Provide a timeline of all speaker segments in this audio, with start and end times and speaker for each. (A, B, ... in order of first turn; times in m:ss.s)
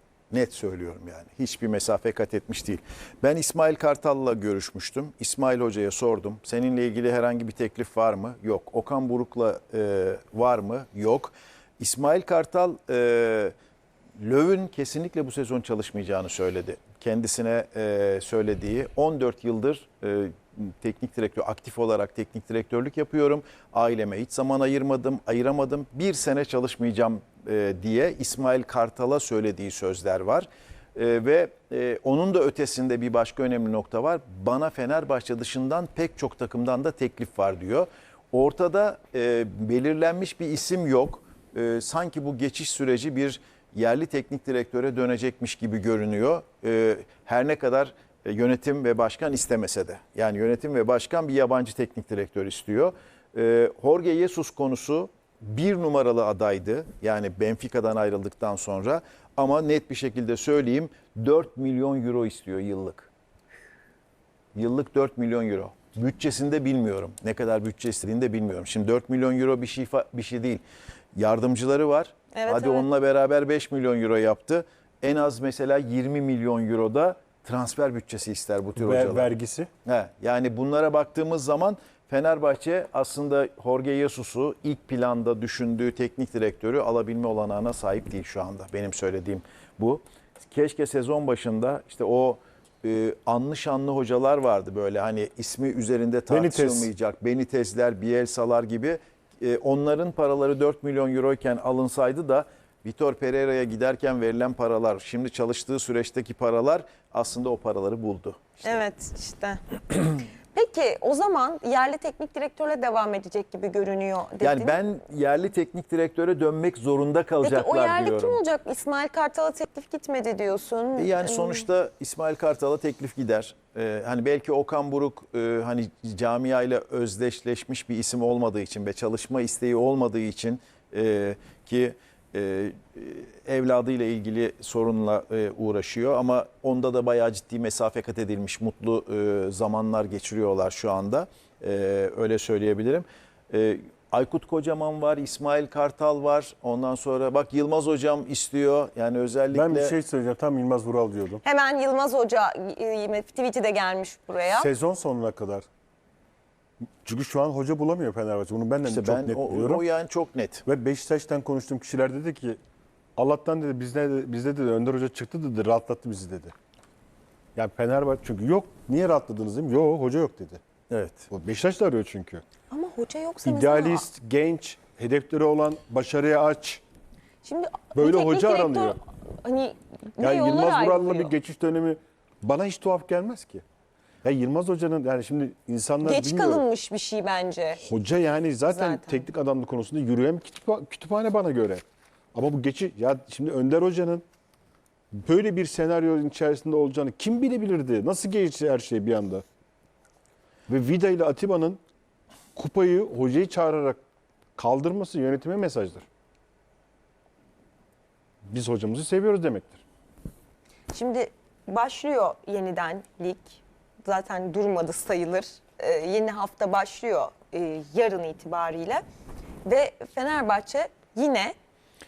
0:00.3-0:13.5 A
0:14.2-1:03.1 A
1:04.6-1:10.6 A
1:11.2-1:19.3 A
1:12.3-1:12.9 B
1:18.8-1:19.7 C
1:19.8-1:48.8 A
1:36.3-1:36.9 C
1:48.6-1:49.6 B
1:50.5-1:54.8 B
1:54.4-1:58.4 A
1:57.4-2:01.7 B
2:01.0-2:30.0 A
2:29.5-2:31.4 C
2:31.4-2:34.7 B
2:34.5-2:35.7 C
2:37.0-2:39.8 C
2:38.8-2:40.6 A
2:40.7-2:42.6 C
2:43.2-2:46.5 C
2:47.6-2:50.6 C
2:50.9-2:51.3 A
2:51.3-2:52.4 C
2:52.7-2:54.1 B
2:53.4-2:56.8 C
2:57.4-3:01.3 B
2:58.0-2:59.0 C
3:00.2-3:03.6 C
3:04.2-3:06.6 C
3:06.0-3:07.8 B
3:07.8-3:14.2 C
3:08.7-3:09.3 B
3:15.1-3:19.4 C
3:20.7-3:21.8 C
3:22.6-3:24.0 C
3:24.6-3:26.1 C
3:28.5-3:29.8 C
3:30.9-3:39.0 B
3:39.6-3:41.5 B